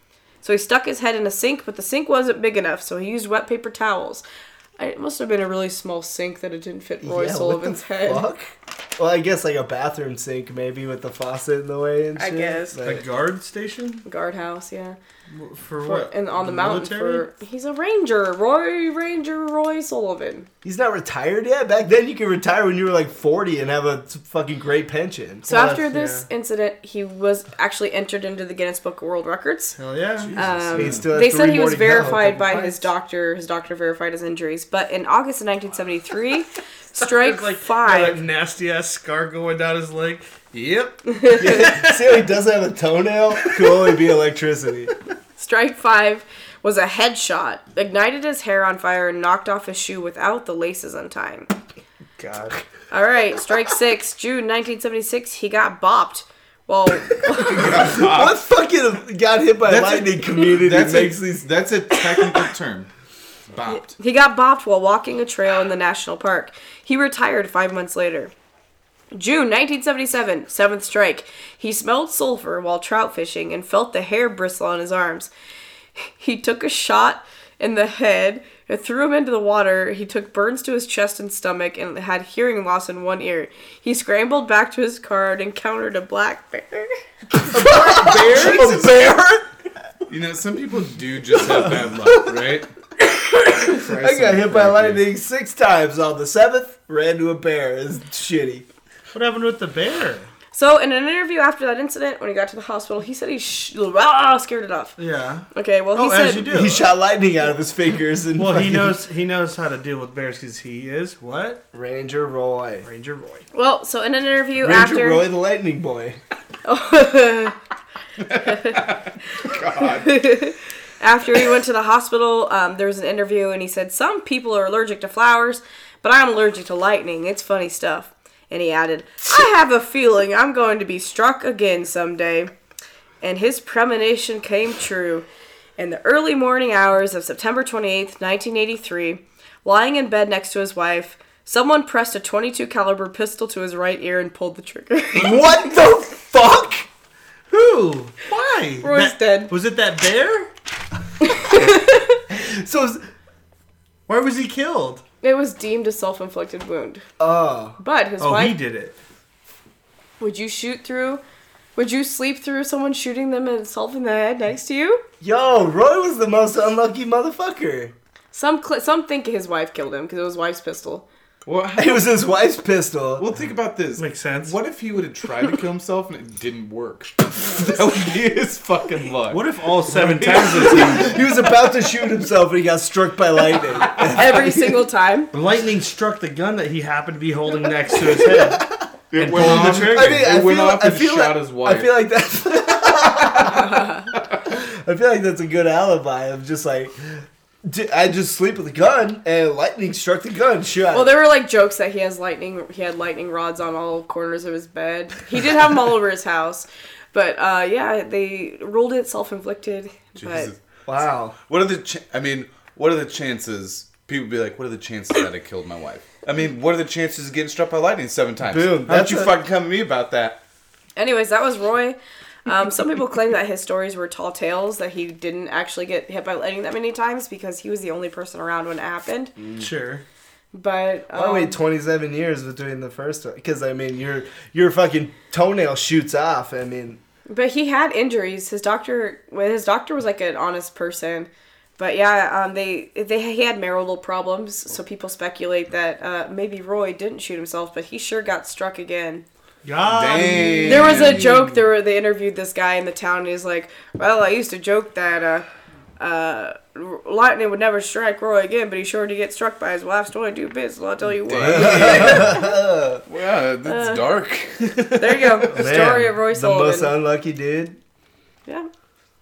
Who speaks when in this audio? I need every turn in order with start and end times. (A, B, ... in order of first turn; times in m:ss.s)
0:00.4-0:04.2 A
0:04.8-0:08.2 A
0:07.0-0:13.0 B
0:12.2-0:12.8 A
0:12.8-0:14.0 C
0:14.0-0:15.0 A
0:15.3-0:17.3 C
0:15.8-0:20.5 A
0:20.6-0:25.8 B
0:25.5-0:29.8 A
0:25.5-0:26.3 C
0:29.8-0:30.3 C
0:30.2-0:31.0 D
0:30.3-0:38.2 A
0:30.7-0:32.9 B
0:37.0-0:42.2 C
0:41.1-0:41.4 A
0:41.4-0:44.9 B
0:45.4-0:51.5 A
0:52.2-0:52.6 C
0:52.9-0:57.8 A
0:57.4-0:58.4 D
0:57.5-1:01.5 B
0:59.6-1:02.9 D
1:03.5-1:03.9 D
1:03.9-1:08.3 A
1:09.1-1:15.3 A
1:16.2-1:26.9 A
1:27.4-1:29.5 B
1:27.5-1:28.9 C
1:30.1-1:32.7 D
1:33.4-1:38.6 B
1:33.7-1:34.6 C
1:34.5-1:35.0 D
1:39.1-1:40.3 C
1:40.5-1:45.0 A
1:45.0-1:46.8 C
1:45.5-1:46.5 A
1:46.5-1:49.0 B
1:48.4-1:51.6 C
1:51.7-1:52.9 B
1:52.8-1:53.4 C
1:53.5-1:55.2 A
1:54.6-1:56.2 B
1:56.6-1:57.6 A
1:58.2-2:00.2 D
1:58.4-1:58.8 A
1:59.8-2:12.5 A
2:13.2-2:15.2 A
2:15.8-2:25.4 A
2:25.1-2:26.9 B
2:27.5-2:30.5 C
2:28.8-2:29.5 A
2:31.3-2:32.2 A
2:32.3-2:33.0 B
2:34.1-2:35.0 C
2:35.2-2:37.0 A
2:37.2-2:37.8 B
2:37.8-2:38.6 A
2:38.2-2:39.0 C
2:40.2-2:41.2 A
2:41.8-2:45.0 A
2:45.2-2:47.9 B
2:48.3-2:51.1 A
2:51.4-2:52.2 D
2:51.8-2:53.2 B
2:53.2-2:59.4 D
2:54.0-2:54.6 C
2:59.3-3:01.2 C
2:59.9-3:04.8 B
3:00.2-3:01.1 D
3:04.0-3:05.3 A
3:05.3-3:10.2 C
3:08.0-3:08.8 B
3:09.1-3:11.9 D
3:09.3-3:13.9 B
3:13.5-3:14.0 A
3:14.1-3:14.4 D
3:14.4-3:21.2 B
3:20.9-3:30.5 A
3:30.2-3:30.6 D
3:30.9-3:31.4 B
3:31.5-3:40.4 D
3:38.5-3:39.3 B
3:41.0-3:49.3 A
3:49.6-3:50.0 C
3:50.5-3:51.6 A
3:51.1-3:57.0 B
3:57.3-4:09.2 A
4:09.6-4:11.3 C
4:09.8-4:11.6 D
4:10.6-4:15.4 A
4:16.0-4:22.5 A
4:21.2-4:22.4 D
4:21.4-4:23.0 B
4:23.1-4:25.3 D
4:23.6-4:24.0 A
4:24.9-4:26.9 A
4:25.5-4:27.8 B